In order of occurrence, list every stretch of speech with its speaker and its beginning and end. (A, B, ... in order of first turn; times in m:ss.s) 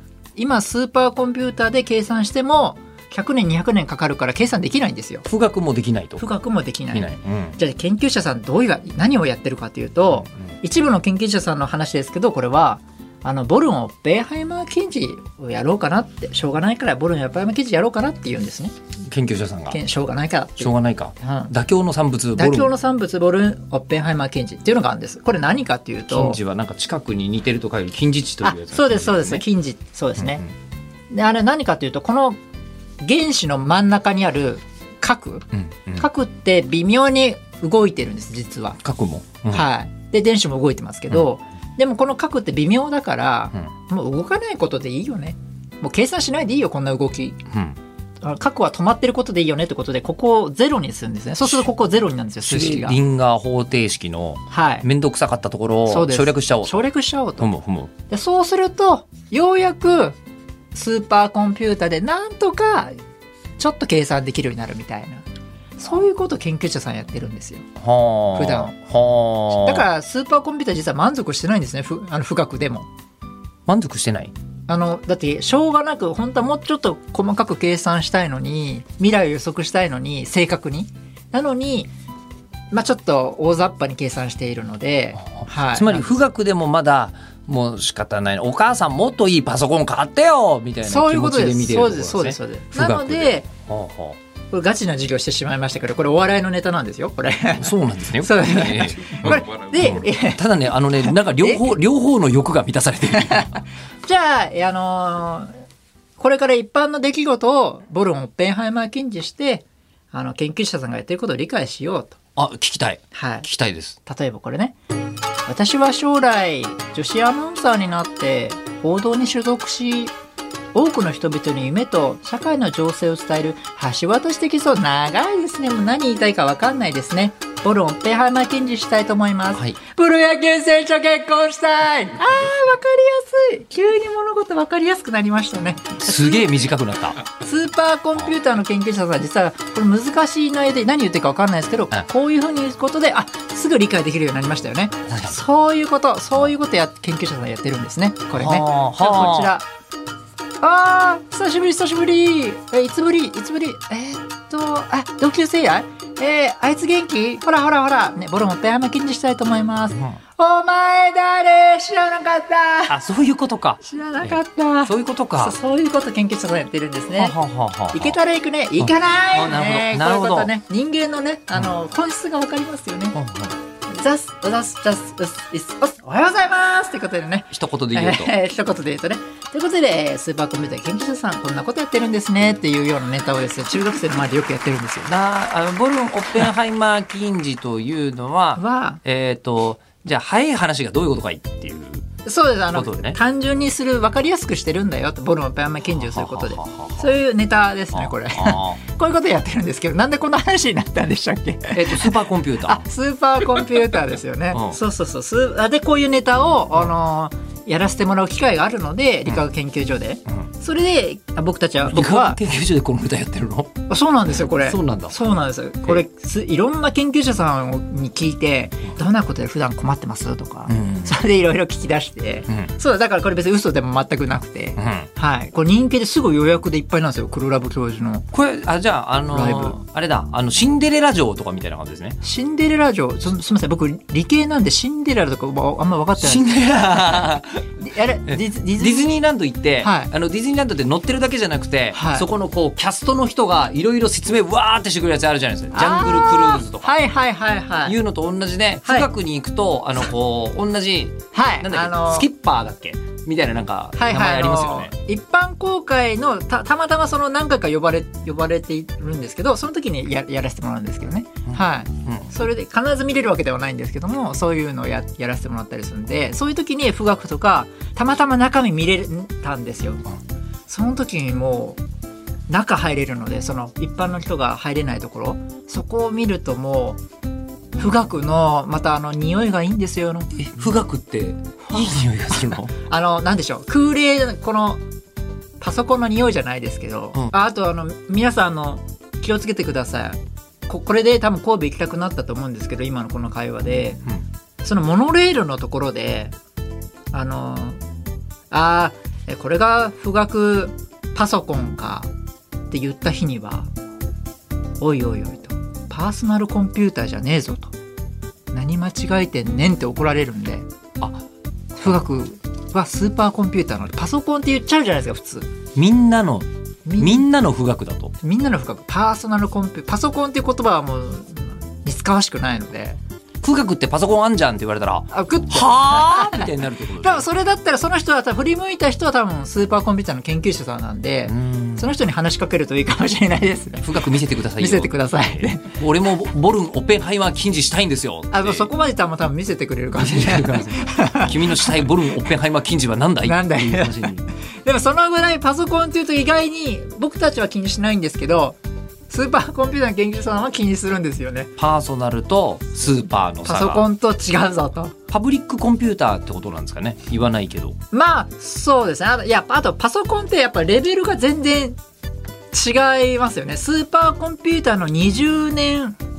0:00.4-0:05.3 A
0:05.3-0:06.2 B
0:06.2-0:18.7 A
0:06.9-0:07.6 B
0:19.1-0:19.8 B
0:19.7-0:21.5 A
0:20.6-0:22.7 B
0:22.4-0:26.4 A
0:26.1-0:29.4 B
0:28.4-0:30.4 A
0:30.2-0:30.5 B
0:31.1-0:32.4 A
0:33.0-0:38.8 A
0:35.5-0:36.0 B
0:38.8-0:39.6 B
0:39.5-0:47.5 A
0:47.5-0:47.8 B
0:48.2-0:53.0 A
0:52.4-0:56.9 B
0:54.5-0:54.9 A
0:55.9-0:57.5 A
0:57.4-0:57.9 B
0:58.1-1:00.2 A
1:00.7-1:03.0 A
1:03.6-1:05.2 A
1:05.8-1:07.7 A
1:07.8-1:09.8 B
1:08.4-1:08.7 A
1:09.5-1:12.9 A
1:13.7-1:14.3 B
1:14.7-1:21.9 A
1:22.7-1:26.2 A
1:25.4-1:34.2 B
1:30.8-1:33.4 A
1:34.5-1:40.4 A
1:37.6-1:43.6 B
1:41.1-1:41.6 A
1:44.0-1:45.5 A
1:46.2-1:52.2 A
1:52.4-1:54.0 B
1:53.1-1:53.5 A
1:54.1-1:54.8 A
1:55.5-2:00.1 A
2:00.8-2:16.5 A
2:16.0-2:17.2 B
2:17.3-2:29.7 A
2:25.1-2:25.4 B
2:28.3-2:29.5 B
2:30.6-2:43.0 A
2:42.9-2:45.6 B
2:43.8-2:47.4 A
2:47.2-2:48.2 B
2:47.9-2:53.2 A
2:48.8-2:50.5 B
2:53.1-2:53.6 B
2:53.9-3:05.1 A
2:57.5-2:58.3 B
3:05.1-3:12.1 B
3:08.6-3:09.0 A
3:12.2-3:32.4 A
3:12.7-3:13.2 B
3:15.9-3:17.1 B
3:17.9-3:18.8 B
3:21.7-3:22.8 B
3:24.5-3:24.8 B
3:31.8-3:33.8 B
3:33.9-3:48.3 A
3:34.6-3:35.2 B
3:40.7-3:41.2 B
3:44.8-3:45.1 B
3:48.3-3:52.2 B
3:49.3-3:49.8 A
3:52.2-3:56.5 A
3:56.2-3:57.6 B
3:57.8-3:59.2 A
3:58.3-4:06.9 B
3:59.8-4:00.1 A
4:01.9-4:02.3 A
4:05.7-4:08.0 A
4:07.8-4:14.9 B
4:11.3-4:12.3 A
4:14.0-4:30.0 A
4:30.7-4:31.8 A
4:32.5-4:37.0 A
4:37.8-4:40.7 A
4:40.4-4:42.7 B
4:41.6-4:44.8 A
4:45.6-4:54.0 A
4:54.6-4:56.4 A
4:57.1-4:57.8 A
4:58.5-5:02.1 A
5:02.7-5:03.7 A
5:04.8-5:07.8 A
5:08.5-5:10.7 A
5:11.0-5:11.2 B
5:11.8-5:15.5 A
5:15.8-5:16.5 B
5:16.9-5:17.3 A
5:17.0-5:18.1 B
5:18.2-5:23.0 A
5:23.4-5:27.2 B
5:25.1-5:33.9 A
5:31.3-5:31.9 B
5:33.8-5:38.7 B
5:34.6-5:35.7 A
5:38.3-5:41.8 A
5:40.0-5:44.3 B
5:43.2-5:44.1 A
5:44.6-5:48.6 A
5:49.1-5:51.5 A
5:51.6-5:53.9 B
5:53.4-5:55.0 A
5:55.1-5:57.8 B
5:57.9-6:01.8 A
6:02.5-6:06.0 A